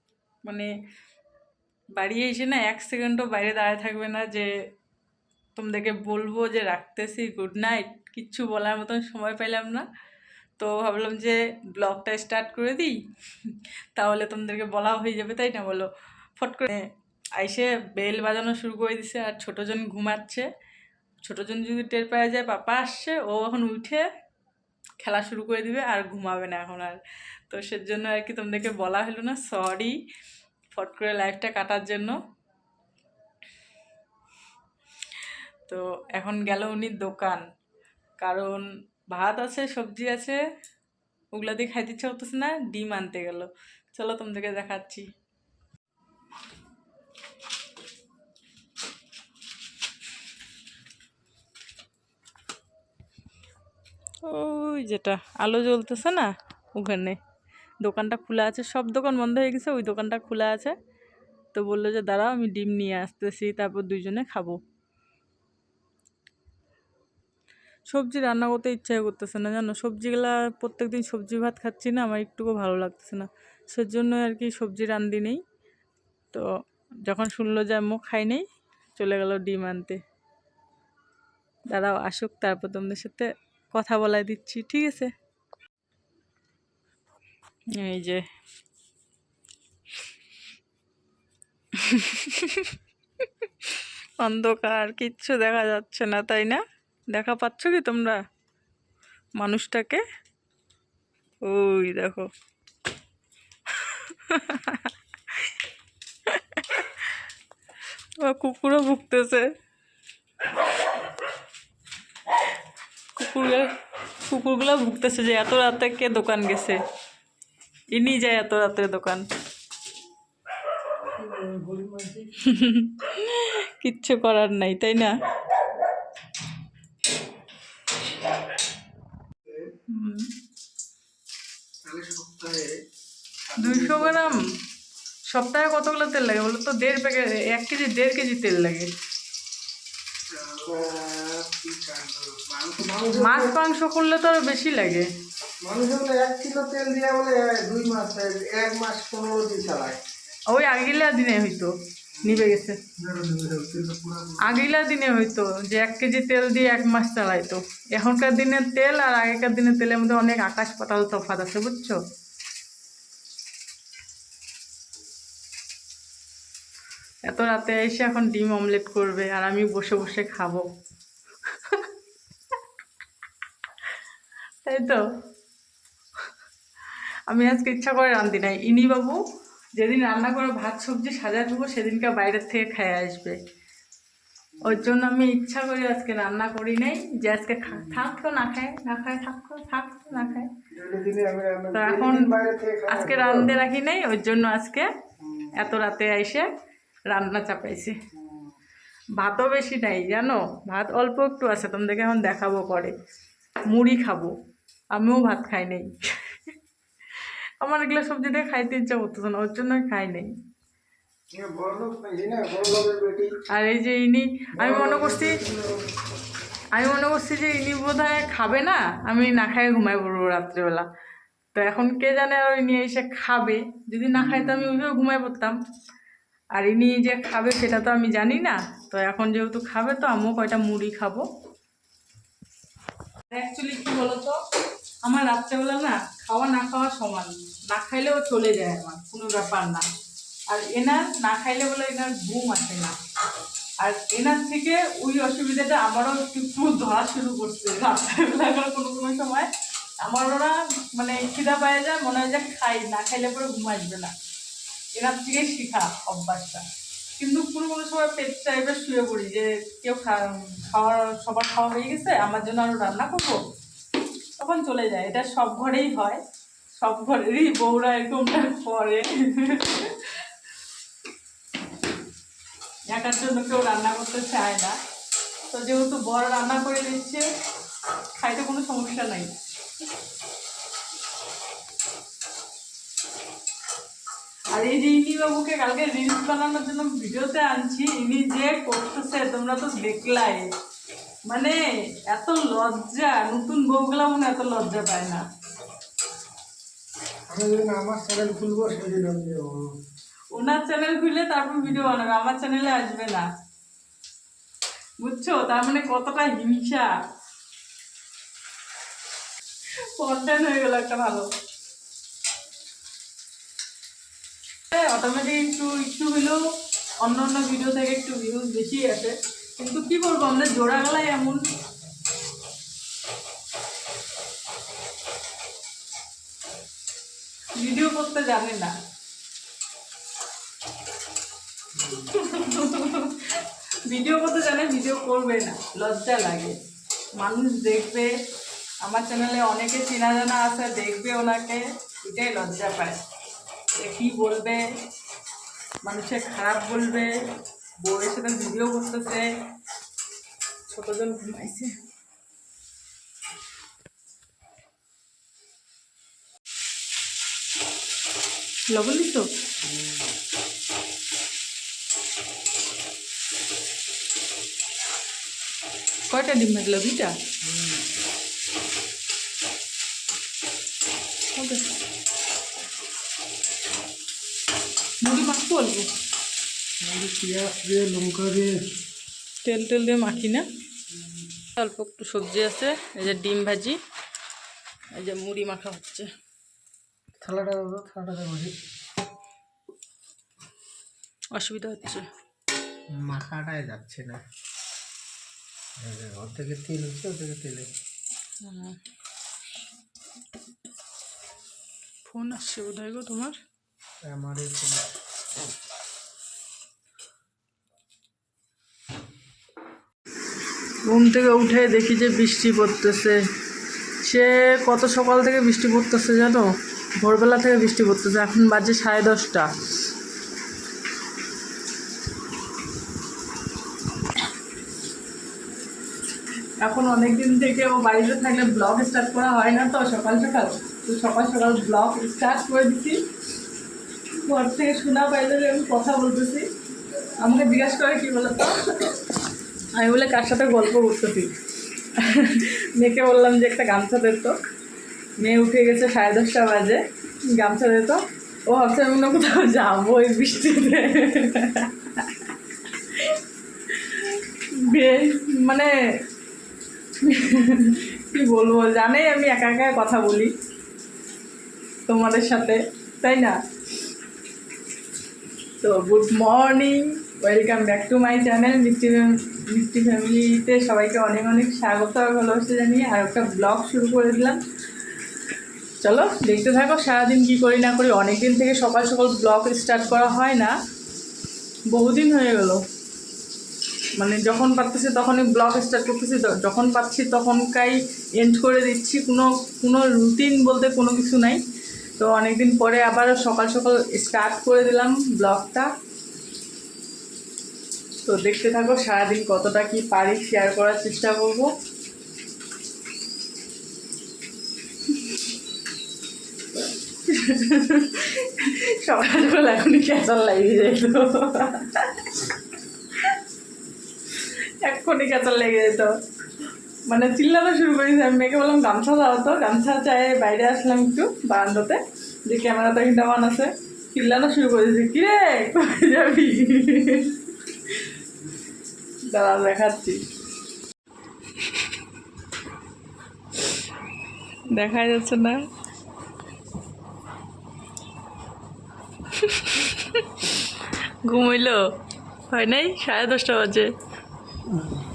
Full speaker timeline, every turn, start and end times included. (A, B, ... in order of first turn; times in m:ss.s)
0:00.4-0:00.7 A
0:02.0-0:04.5 A
0:05.6-0:09.9 A
0:10.6-0:20.5 A
0:21.2-0:24.0 A
0:25.0-0:30.0 A
0:30.7-0:32.2 A
0:35.7-0:37.4 A
0:38.2-0:40.4 A
0:41.3-0:45.1 A
0:54.2-0:57.2 A
0:57.8-1:00.7 A
1:01.5-1:04.6 A
1:07.9-1:15.4 A
1:17.0-1:18.4 A
1:19.0-1:20.0 A
1:21.7-1:25.1 A
1:27.7-1:28.2 A
1:31.7-1:38.2 A
1:39.4-1:40.0 A
1:41.4-1:42.3 A
1:43.8-1:45.5 A
1:46.3-1:47.2 A
1:48.2-1:49.5 A
1:53.1-1:53.7 A
1:54.2-1:56.8 A
1:57.9-1:59.2 A
2:01.1-2:02.4 B
2:02.4-2:05.2 A
2:09.9-2:10.3 A
2:11.8-2:12.7 B
2:13.5-2:14.4 B
2:13.6-2:14.4 A
2:15.3-2:18.9 A
2:20.3-2:23.6 B
2:23.1-2:25.1 A
2:25.6-2:30.0 B
2:30.5-2:32.8 A
2:32.2-2:34.6 B
2:34.4-2:42.0 A
2:47.3-2:50.6 A
2:51.5-2:51.9 A
2:54.6-2:55.0 A
2:57.3-2:59.2 A
2:59.8-3:03.4 A
3:04.6-3:04.8 B
3:04.6-3:10.5 A
3:07.8-3:08.1 B
3:10.1-3:13.6 B
3:11.7-3:12.3 A
3:12.9-3:14.9 A
3:15.2-3:15.5 B
3:15.5-3:16.5 A
3:17.1-3:18.0 A
3:18.1-3:18.5 B
3:19.2-3:22.9 A
3:23.7-3:24.3 A
3:24.9-3:26.5 A
3:27.2-3:30.3 A
3:31.3-3:33.3 B
3:33.5-3:35.4 A
3:34.6-3:35.9 B
3:36.7-3:40.8 A
3:41.5-3:45.6 A
3:46.5-3:51.2 A
3:53.3-3:54.4 A
3:55.0-3:59.9 A
4:00.5-4:03.0 A
4:03.8-4:09.5 A
4:10.0-4:14.1 A
4:15.0-4:16.6 A
4:17.2-4:23.4 A
4:24.4-4:26.2 A
4:26.8-4:30.2 A
4:32.9-4:34.8 A
4:35.5-4:37.2 A
4:38.2-4:39.3 A
4:44.5-4:50.5 A
4:51.3-4:55.2 A
4:57.3-4:59.6 B
5:00.3-5:03.2 A
5:05.0-5:06.9 A
5:10.0-5:11.3 A
5:14.7-5:16.4 A
5:17.0-5:21.4 A
5:27.6-5:28.7 A
5:31.8-5:36.6 A
5:37.2-5:38.1 A
5:38.8-5:43.0 A
5:43.8-5:44.7 A
5:45.8-5:47.2 A
5:47.8-5:49.3 A
5:50.7-5:51.8 A
5:58.7-5:59.3 A
5:59.7-5:59.9 B
6:06.1-6:07.2 A
6:07.4-6:07.8 B
6:11.3-6:11.7 A
6:15.0-6:15.9 A
6:16.8-6:18.6 B
6:19.4-6:20.5 A
6:21.4-6:23.8 A
6:24.9-6:26.1 A
6:27.2-6:28.5 B
6:31.3-6:32.0 A
6:32.9-6:34.2 B
6:35.8-6:37.7 B
6:38.4-6:38.8 A
6:42.0-6:43.4 A
6:44.0-6:44.9 B
6:50.8-6:53.2 A
6:54.0-6:59.5 A
7:06.6-7:13.0 A
7:14.2-7:16.5 A
7:17.2-7:19.1 A
7:19.7-7:21.3 A
7:21.9-7:24.4 A
7:25.2-7:32.3 A
7:32.9-7:35.7 A
7:37.0-7:40.3 A
7:41.9-7:43.4 A
7:45.6-7:54.4 A
7:55.8-8:00.5 A
8:01.7-8:02.6 A
8:04.0-8:11.4 A
8:12.0-8:15.7 A
8:18.0-8:21.5 A
8:26.9-8:32.3 A
8:32.9-8:33.2 A
8:34.1-8:36.0 A
8:36.9-8:47.9 A
8:49.1-8:50.0 A
8:54.5-8:55.4 A
8:59.1-9:01.6 A
9:02.3-9:03.7 A